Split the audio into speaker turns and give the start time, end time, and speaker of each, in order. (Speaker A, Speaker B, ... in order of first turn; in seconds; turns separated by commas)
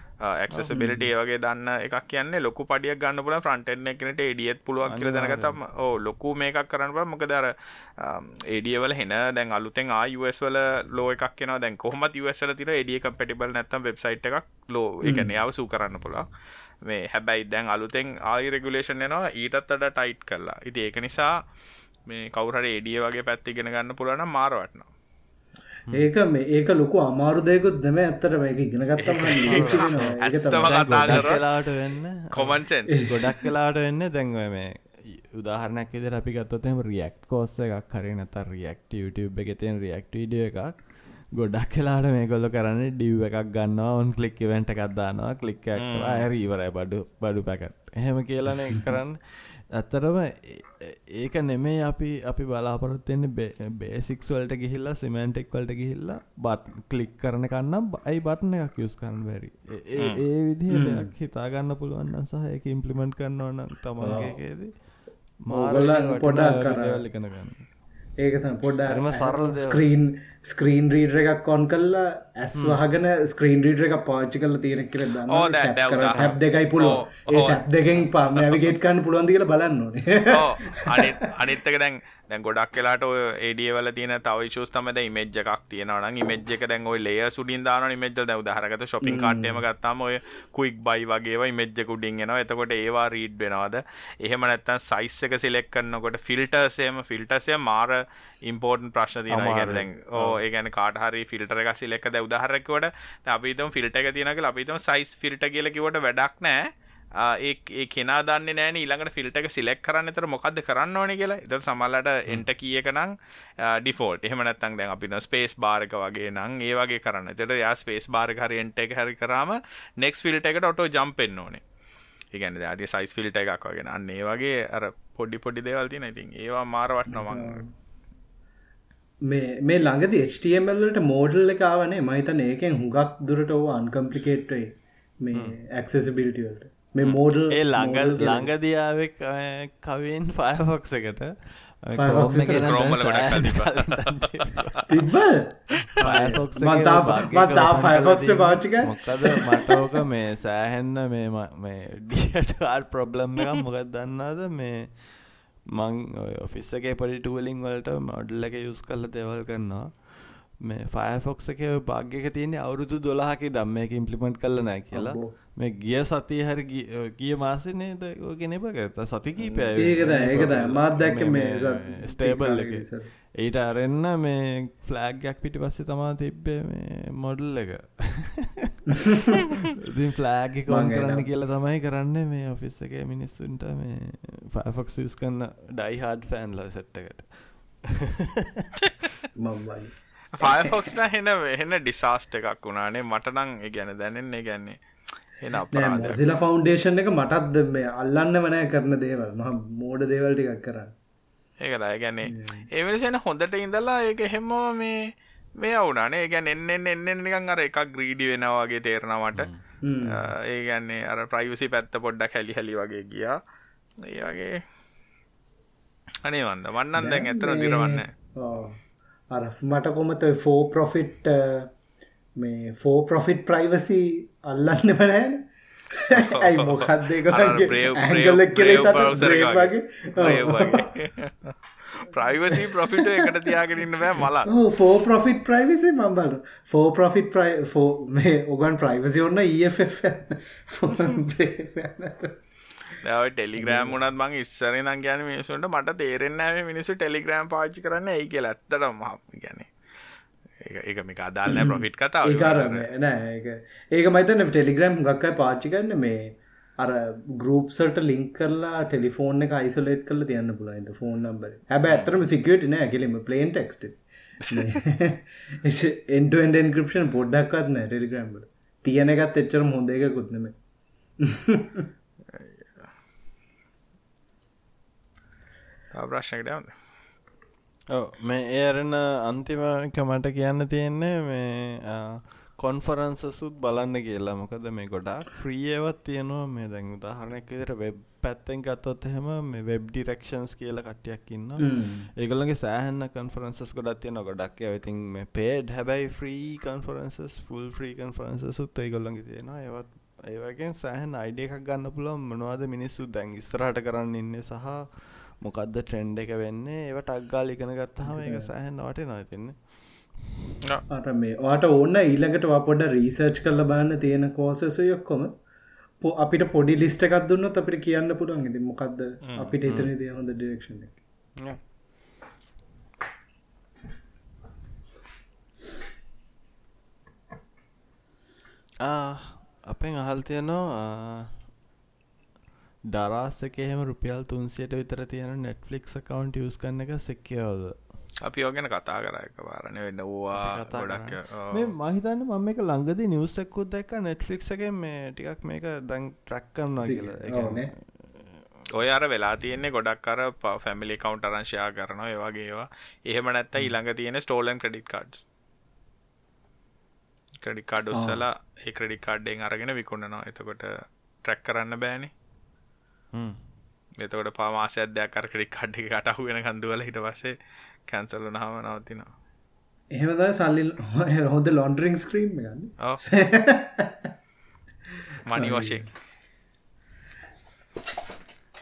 Speaker A: 0.2-16.2, Speaker B: 0.5-1.1, Speaker B: 4.8-5.6, Speaker C: 15.0-15.3, Speaker A: 16.8-21.3, Speaker A: 22.1-24.9, Speaker C: 25.9-31.4, Speaker A: 29.0-31.4, Speaker B: 29.5-64.7, Speaker A: 32.3-33.2, Speaker A: 45.8-46.2, Speaker C: 60.7-61.1, Speaker C: 64.0-64.4, Speaker B: 65.4-67.7, Speaker C: 65.5-67.0, Speaker C: 68.2-81.2, Speaker B: 68.9-69.8, Speaker B: 72.5-72.8, Speaker A: 75.3-77.6, Speaker A: 78.3-78.7, Speaker A: 80.3-106.7, Speaker C: 89.0-89.6, Speaker B: 99.3-100.4, Speaker A: 107.2-121.6, Speaker A: 122.3-127.6, Speaker C: 127.1-127.7, Speaker C: 129.2-138.5, Speaker B: 137.5-145.0, Speaker C: 141.9-142.9, Speaker A: 142.6-144.8, Speaker C: 144.9-149.8, Speaker B: 146.0-178.8, Speaker C: 164.9-165.3, Speaker C: 169.8-173.1, Speaker B: 179.7-188.8, Speaker C: 180.7-181.3, Speaker C: 189.3-190.7, Speaker A: 190.3-194.8, Speaker A: 195.4-196.2, Speaker C: 195.7-200.9, Speaker A: 201.6-205.0, Speaker C: 202.2-202.7, Speaker A: 205.6-209.5, Speaker B: 209.3-209.6, Speaker C: 209.8-210.3, Speaker A: 210.1-213.4, Speaker A: 214.0-214.6, Speaker A: 216.2-218.1, Speaker C: 217.0-218.8, Speaker C: 219.3-221.7, Speaker C: 222.4-230.9, Speaker A: 226.1-234.5, Speaker C: 232.5-233.3, Speaker C: 234.4-242.4, Speaker A: 243.0-249.7, Speaker C: 243.6-244.0, Speaker A: 250.6-252.9, Speaker C: 251.5-270.5, Speaker C: 271.2-271.9, Speaker A: 272.3-272.9, Speaker A: 275.9-276.7, Speaker B: 277.9-309.6, Speaker C: 291.6-292.1, Speaker C: 308.0-308.5, Speaker C: 310.9-315.3, Speaker C: 316.0-321.0, Speaker A: 319.2-319.5, Speaker B: 328.8-331.4, Speaker B: 332.9-337.8, Speaker A: 338.2-341.7, Speaker B: 340.3-348.4, Speaker C: 346.8-347.7, Speaker A: 348.7-355.2, Speaker A: 357.4-362.1, Speaker C: 357.9-358.2, Speaker B: 363.1-363.4, Speaker A: 364.0-367.3, Speaker A: 367.9-369.1, Speaker C: 369.9-374.1, Speaker A: 375.2-375.9, Speaker C: 375.4-375.8